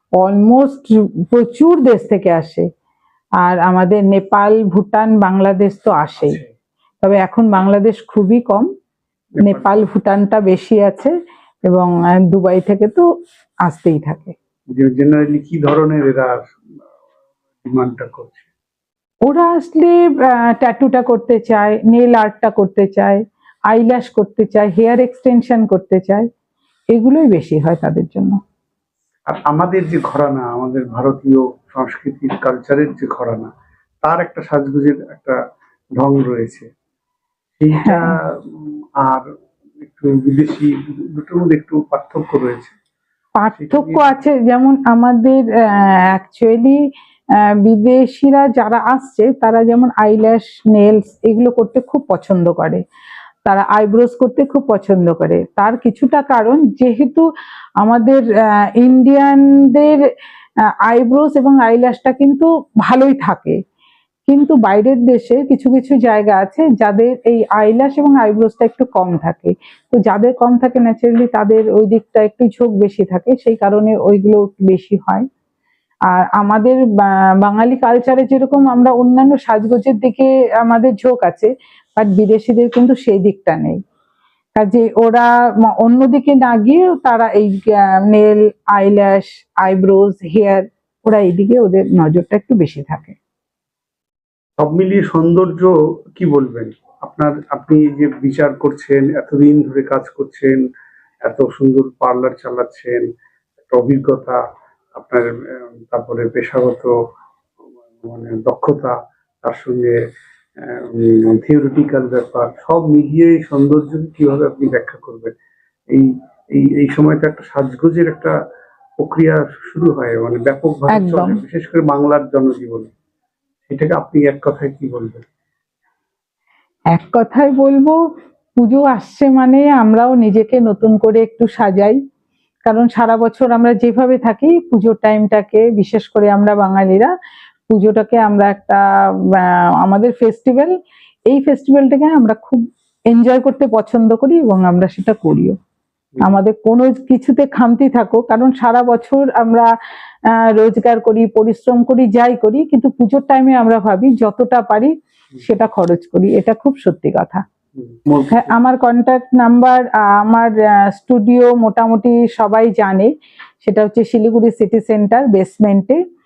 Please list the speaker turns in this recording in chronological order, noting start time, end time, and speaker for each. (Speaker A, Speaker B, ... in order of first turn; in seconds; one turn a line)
Speaker A: 0.2-2.7
Speaker A: 3.4-6.4
Speaker B: 6.2-6.5
Speaker A: 7.0-8.7
Speaker B: 9.3-9.8
Speaker A: 9.4-11.1
Speaker A: 11.7-13.1
Speaker A: 13.7-14.3
Speaker B: 14.8-16.4
Speaker B: 17.6-18.5
Speaker A: 19.3-26.3
Speaker A: 26.9-28.4
Speaker B: 29.3-33.5
Speaker B: 34.0-35.4
Speaker B: 36.0-36.7
Speaker B: 37.6-39.3
Speaker B: 39.8-42.7
Speaker A: 43.4-46.8
Speaker B: 43.5-44.1
Speaker A: 47.6-52.8
Speaker A: 53.5-57.3
Speaker A: 57.8-60.0
Speaker A: 60.9-63.6
Speaker A: 64.3-75.2
Speaker A: 76.1-76.8
Speaker A: 77.4-83.8
Speaker A: 84.6-93.2
Speaker B: 94.6-100.6
Speaker B: 101.3-103.0
Speaker B: 103.7-104.4
Speaker B: 105.0-106.9
Speaker B: 108.0-110.0
Speaker B: 110.6-115.3
Speaker B: 115.9-118.3
Speaker B: 119.0-122.9
Speaker A: 120.9-121.4
Speaker B: 123.7-125.2
Speaker A: 126.9-128.0
Speaker A: 128.6-132.0
Speaker A: 132.7-137.1
Speaker A: 137.7-138.8
Speaker A: 139.4-140.7
Speaker A: 141.3-145.6
Speaker A: 146.2-149.7
Speaker A: 150.3-154.9
Speaker A: 155.4-157.4
Speaker B: 157.8-158.6
Speaker A: 158.3-163.1
Speaker A: 163.6-166.0